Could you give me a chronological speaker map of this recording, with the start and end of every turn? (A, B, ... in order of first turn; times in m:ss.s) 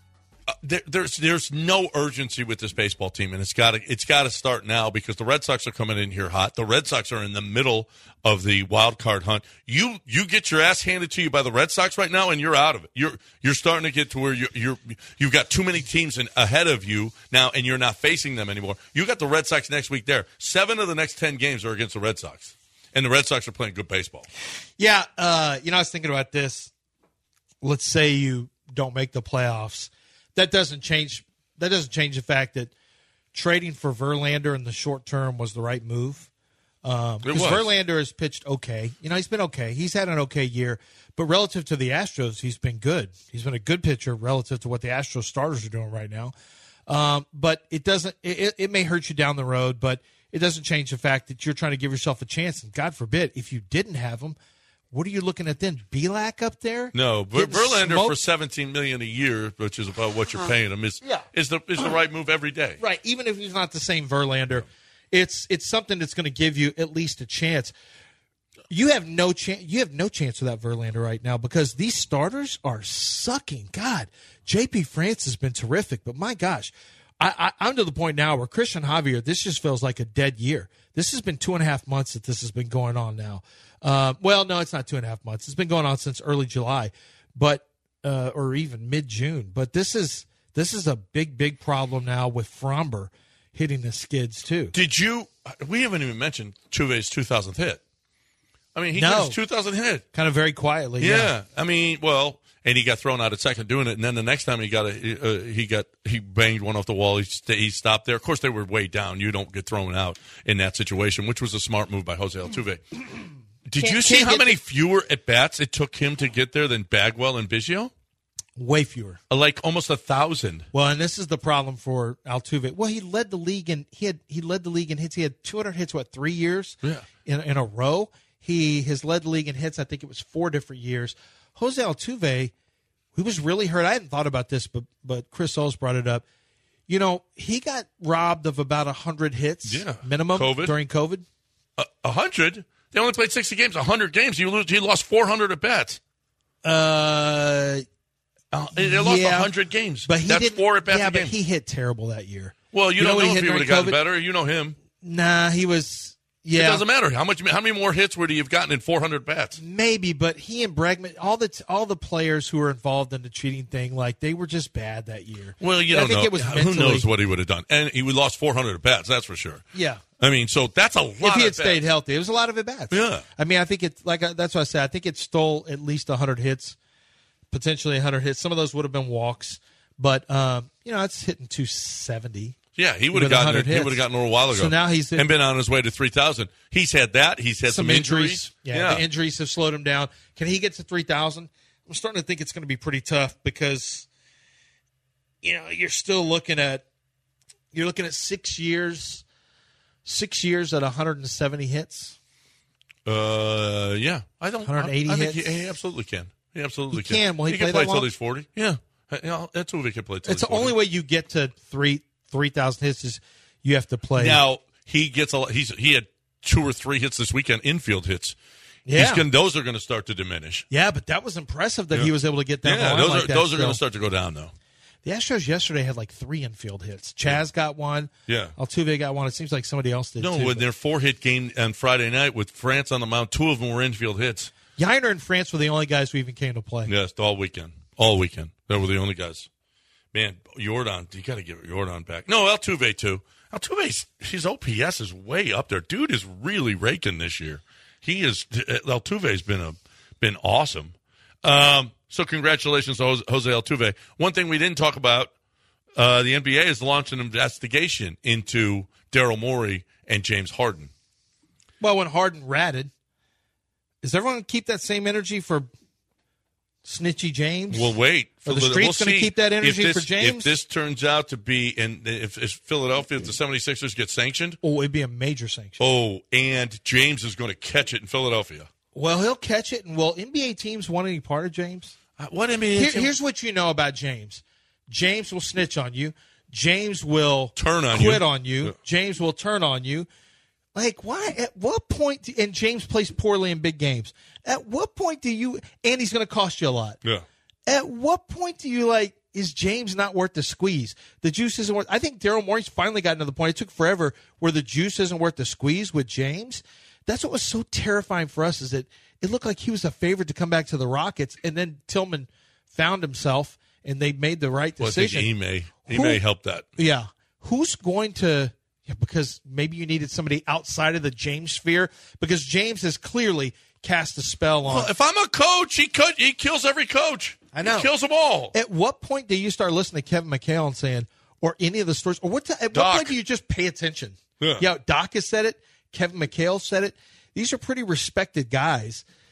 0:00.5-0:24.3 A
0:24.8-0:26.7 B
0:27.6-0:32.7 B
0:33.3-0:36.3 B
0:36.8-0:46.3 B
0:37.2-0:37.7 A
0:46.9-0:54.4 B
0:54.9-0:58.2 B
0:56.9-1:02.8 A
1:02.8-1:07.7 B
1:08.7-1:34.7 B
1:34.7-1:37.8 A
1:38.7-1:40.0 A
1:38.9-1:39.4 B
1:40.1-1:41.3 B
1:41.0-1:52.8 A
1:53.6-1:57.9 A
1:53.8-1:54.6 B
1:58.6-1:59.2 B
1:59.3-2:00.7 A
2:00.7-2:12.5 B
2:13.1-2:16.2 B
2:16.9-2:21.2 B
2:19.6-2:20.7 A
2:21.8-2:26.0 A
2:26.6-2:27.8 B
2:28.5-2:31.3 A
2:28.7-2:29.5 B
2:30.0-2:34.0 B
2:32.7-2:34.8 A
2:35.0-2:36.8 B
2:36.5-2:39.6 A
2:39.6-2:47.1 B
2:45.6-2:49.6 A
2:49.7-2:50.0 B
2:50.2-2:51.8 A
2:51.2-2:56.8 B
2:52.9-2:53.2 A
2:57.5-3:02.6 B
3:02.8-3:09.0 A
3:03.1-3:05.3 B
3:07.6-3:14.1 B
3:15.4-3:16.8 B
3:17.7-3:19.2 B
3:20.0-3:22.2 B
3:23.0-3:30.7 A
3:24.6-3:25.6 B
3:26.9-3:28.1 B
3:30.2-3:34.4 B
3:34.2-3:38.4 A
3:38.8-3:39.3 B
3:38.9-3:40.6 A
3:40.7-3:43.8 B
3:42.6-3:44.5 A
3:45.0-3:50.7 B
3:48.3-3:48.5 A
3:50.2-3:54.5 A
3:54.8-3:56.9 B
3:56.9-3:59.5 A
4:00.1-4:15.3 A
4:16.0-4:20.9 A
4:21.8-4:22.9 B
4:24.0-4:25.7 B
4:26.8-4:30.5 B
4:27.7-4:34.6 A
4:34.6-4:35.8 B
4:35.8-4:38.7 A
4:38.9-4:41.9 B
4:42.2-4:43.1 A
4:42.8-4:50.1 B
4:47.6-4:48.7 A
4:50.7-4:57.0 B
4:57.7-5:15.3 B
5:14.8-5:16.6 A
5:15.9-5:16.2 B
5:16.8-5:24.9 B
5:24.6-5:28.5 A
5:27.5-5:27.9 B
5:28.5-5:39.0 B
5:32.7-5:33.1 A
5:34.4-5:34.7 A